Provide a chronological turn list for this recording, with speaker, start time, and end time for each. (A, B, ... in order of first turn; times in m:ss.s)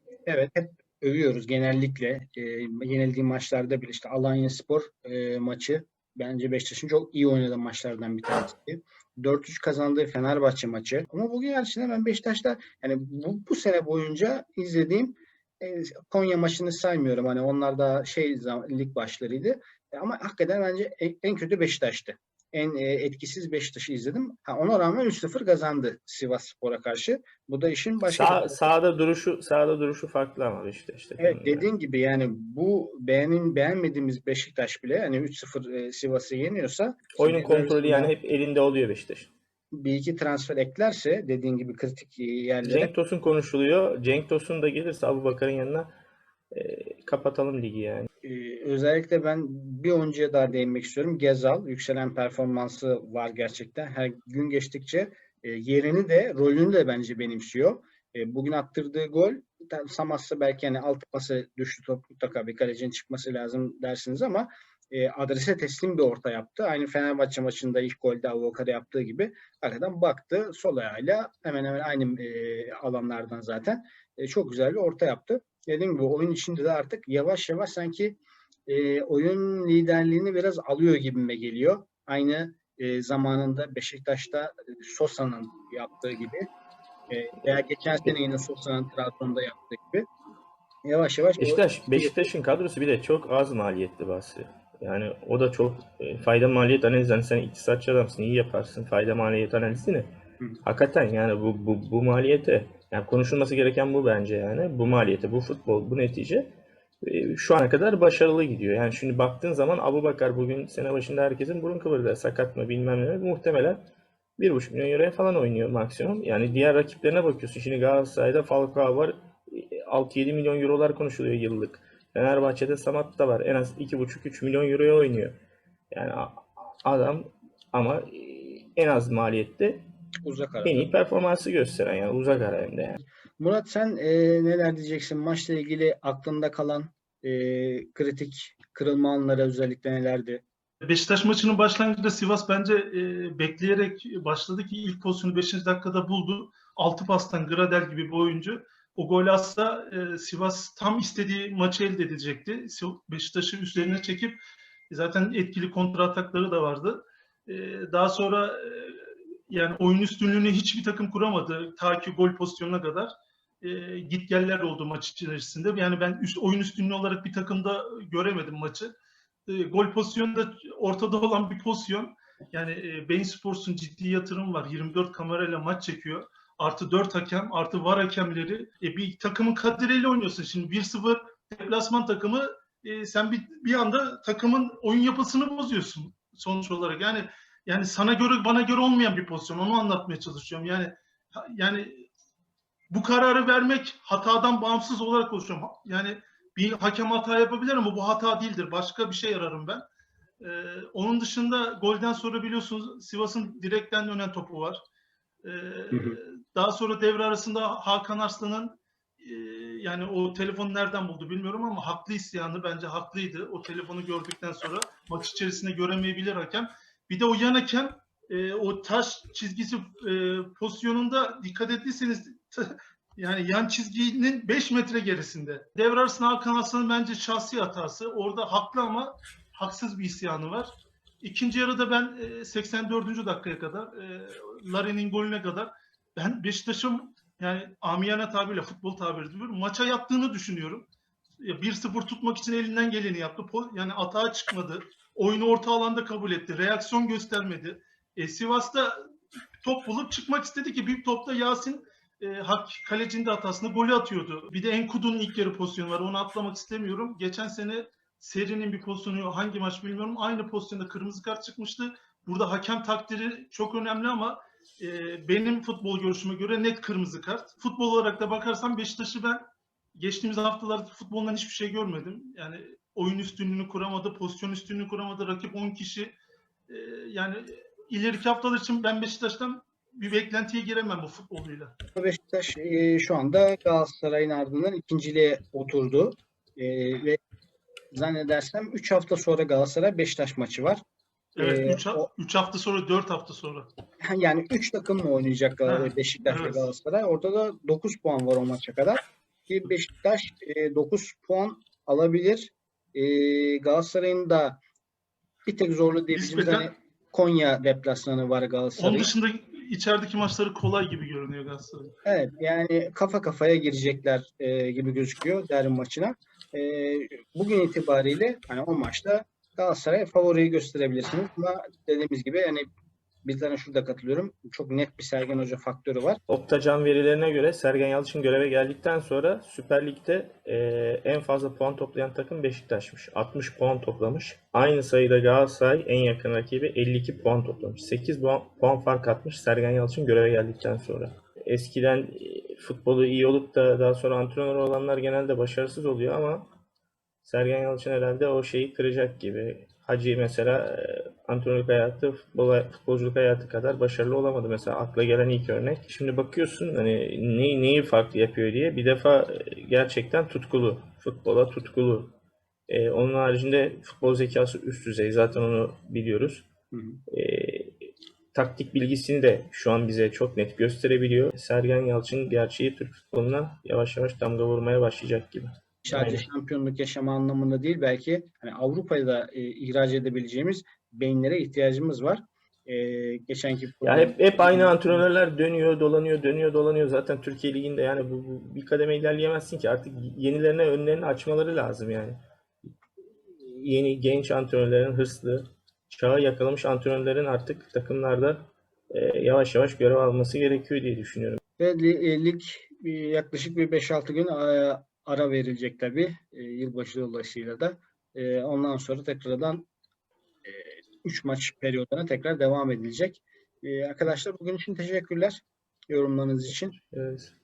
0:00.3-0:28.7 A
0:28.1-0:31.7 B
0:31.2-0:38.1 A
0:37.2-0:39.3 B
0:39.8-0:42.9 A
0:42.6-0:45.9 B
0:46.5-0:48.1 B
0:48.2-1:26.5 A
1:27.1-1:30.1 A
1:30.8-1:32.3 A
1:31.4-1:40.1 B
1:40.6-1:53.8 B
1:54.4-2:05.3 B
2:05.9-2:09.8 B
2:10.2-2:10.8 A
2:10.6-2:13.0 B
2:13.4-2:20.4 A
2:20.9-2:34.4 C
2:34.9-2:43.1 C
2:43.6-2:48.9 C
2:49.5-3:12.1 C
3:12.9-3:19.8 C
3:20.4-3:24.8 C
3:25.4-4:00.9 C
3:25.9-3:26.2 A
4:01.4-4:09.0 C
4:09.6-4:29.4 C
4:30.0-4:36.2 C
4:36.7-4:41.7 C
4:42.0-4:47.2 A
4:47.9-4:50.8 A
4:51.4-4:53.7 C
4:51.4-4:52.1 A
4:54.0-5:04.6 A
4:55.7-4:56.7 C
5:05.5-5:09.1 A
5:06.1-5:06.7 C
5:08.8-5:11.9 C
5:12.0-5:22.7 A
5:23.2-5:26.2 A
5:26.3-5:46.4 B
5:47.2-6:02.1 B
6:02.7-6:06.5 B
6:06.7-6:07.0 A
6:07.1-6:16.3 B
6:15.8-6:25.1 A
6:23.8-6:32.2 B
6:33.4-6:38.4 B
6:38.9-6:41.4 B
6:41.6-6:49.7 A
6:50.4-6:56.8 A
6:56.9-6:57.4 B